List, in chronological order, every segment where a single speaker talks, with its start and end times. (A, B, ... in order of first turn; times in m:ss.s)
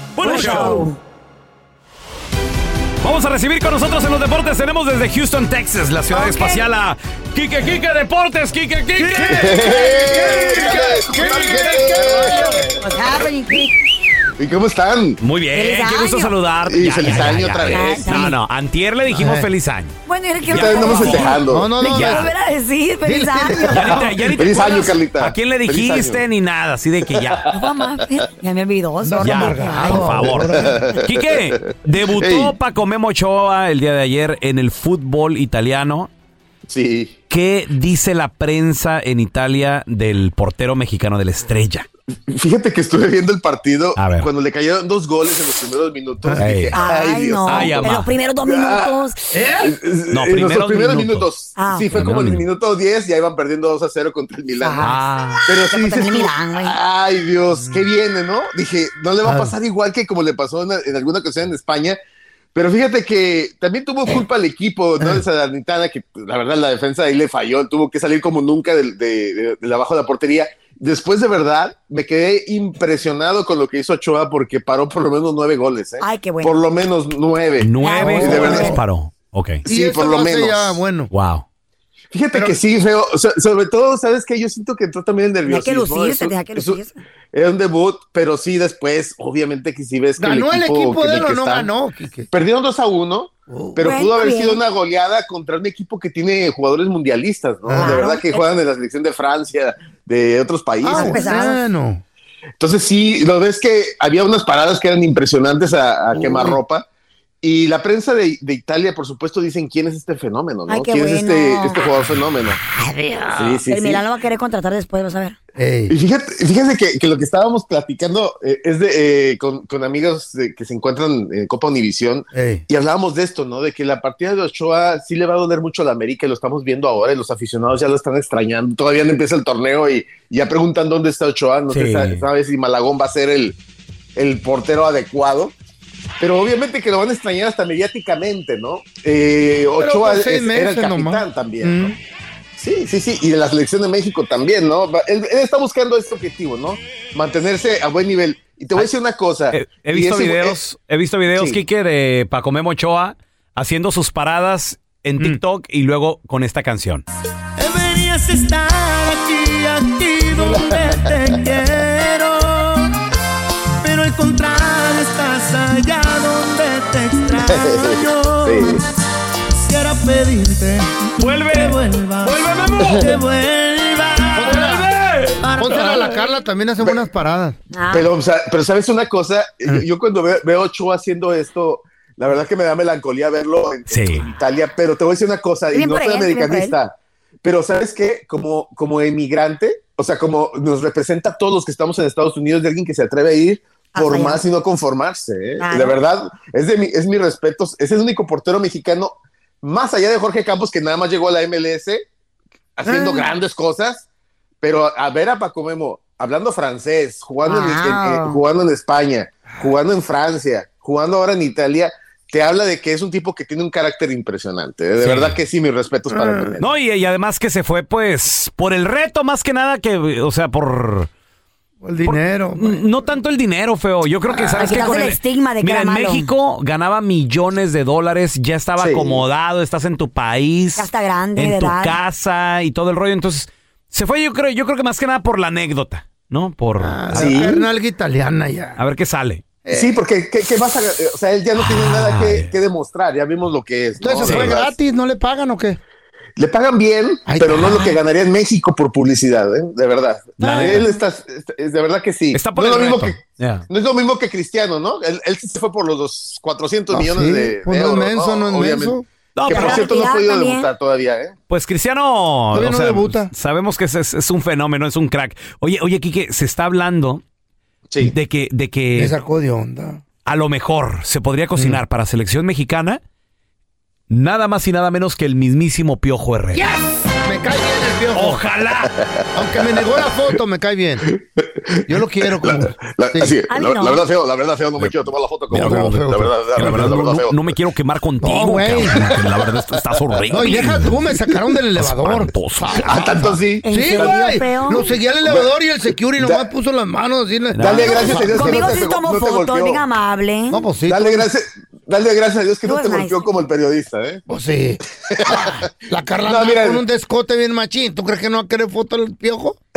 0:00.2-0:00.9 A
0:00.2-0:01.0 B
0:03.0-0:10.6 A
0:06.1-0:06.6 B
0:09.0-0:12.9 C
0:09.3-0:12.7 D
0:12.2-0:13.8 B
0:14.4-0:15.2 D
0:15.2-0:20.0 A
0:15.5-0:16.4 B
0:16.7-0:18.3 D
0:17.7-0:18.4 B
0:19.1-0:19.5 C
0:20.0-0:23.9 B
0:20.5-0:21.8 D
0:20.5-0:22.3 A
0:21.5-0:22.3 C
0:23.0-0:24.4 C
0:23.7-0:27.5 A
0:24.4-0:26.2 D
0:27.2-0:27.6 D
0:27.5-0:30.2 B
0:29.0-0:30.8 C
0:29.2-0:36.1 A
0:30.6-0:32.5 D
0:36.7-0:37.1 D
0:37.3-0:41.8 A
0:42.3-0:54.9 D
0:44.0-0:44.3 A
0:46.4-0:46.8 A
0:46.7-0:49.2 B
0:47.5-0:48.1 A
0:49.3-0:49.7 C
0:50.1-0:51.3 A
0:51.6-0:52.0 B
0:51.9-0:52.4 A
0:54.6-0:56.8 B
0:54.8-0:55.4 A
0:55.5-1:02.0 D
0:59.2-0:59.6 C
1:02.5-1:18.8 D
1:16.0-1:16.6 B
1:17.6-1:19.7 A
1:17.8-1:18.8 B
1:18.0-1:18.8 C
1:19.7-1:21.1 C
1:19.7-1:20.8 D
1:21.1-1:21.4 A
1:22.1-1:26.8 D
1:25.5-1:27.0 B
1:27.3-1:31.7 D
1:30.2-1:32.3 C
1:32.3-1:41.3 D
1:33.5-1:33.8 C
1:33.8-1:34.6 B
1:37.6-1:38.0 C
1:37.8-1:38.5 B
1:40.8-1:42.0 C
1:40.9-1:41.7 B
1:42.6-1:46.9 D
1:46.1-1:46.6 C
1:47.4-1:52.6 D
1:50.7-1:51.9 B
1:52.6-1:55.4 B
1:53.3-1:54.0 D
1:55.6-1:56.0 C
1:55.9-2:13.6 D
2:02.3-2:02.6 C
2:11.7-2:12.2 A
2:14.2-2:15.5 D
2:16.2-2:21.9 D
2:19.8-2:22.0 C
2:22.6-2:30.6 D
2:29.5-2:37.0 A
2:31.3-2:31.6 D
2:37.6-2:38.0 C
2:38.8-2:39.5 E
2:40.1-2:40.9 E
2:40.3-2:41.7 C
2:40.6-2:41.6 D
2:43.8-2:44.2 C
2:45.8-2:47.7 C
2:47.3-2:48.8 D
2:49.7-2:50.8 C
2:51.2-2:53.2 A
2:51.6-2:52.0 C
2:53.5-2:54.0 E
2:53.9-2:56.1 A
2:54.3-2:54.9 C
2:55.4-2:57.6 C
2:57.7-2:58.1 B
2:57.9-3:22.1 D
3:03.9-3:04.3 A
3:05.7-3:06.8 B
3:14.0-3:14.4 B
3:15.6-3:16.0 B
3:22.8-3:24.1 D
3:22.9-3:23.3 B
3:24.6-3:36.7 D
3:27.4-3:28.4 B
3:35.0-3:35.4 A
3:36.1-3:36.6 C
3:36.6-3:41.1 A
3:41.8-3:42.8 C
3:42.0-3:57.5 A
3:44.6-3:46.3 B
3:48.8-3:49.2 D
3:50.8-3:52.0 B
3:56.8-3:58.8 C
3:57.1-3:57.6 D
3:58.8-3:59.4 A
3:59.6-4:00.0 C
3:59.7-4:04.7 D
4:01.6-4:02.5 A
4:04.0-4:05.8 C
4:04.2-4:04.5 A
4:06.4-4:21.3 D
4:07.3-4:08.0 C
4:10.4-4:10.9 A
4:10.5-4:11.0 B
4:12.3-4:13.7 A
4:16.9-4:19.0 C
4:19.3-4:19.8 A
4:19.5-4:20.7 B
4:21.5-4:27.2 A
4:22.5-4:23.3 C
4:27.9-4:28.1 D
4:28.0-4:29.2 A
4:28.9-4:30.0 C
4:30.2-4:33.0 A
4:31.5-4:31.8 C
4:34.1-4:36.6 A
4:36.5-4:38.4 C
4:38.1-4:38.9 A
4:38.9-4:39.2 D
4:39.3-4:41.1 C
4:41.0-4:47.4 D
4:41.9-4:43.4 C
4:43.5-4:44.0 B
4:45.5-4:47.0 C
4:45.5-4:46.0 A
4:46.5-4:50.9 A
4:48.2-4:49.1 C
4:50.3-4:58.7 C
4:51.8-4:53.3 A
4:52.8-4:54.2 D
4:53.6-4:54.9 B
4:55.2-4:55.5 D
4:56.2-4:56.5 D
4:57.5-4:57.9 A
4:57.6-4:59.8 D
4:57.8-5:00.6 B
5:00.5-5:01.3 C
5:00.8-5:04.2 D
5:02.6-5:03.3 B
5:04.3-5:09.6 C
5:05.1-5:05.7 D
5:06.2-5:06.8 D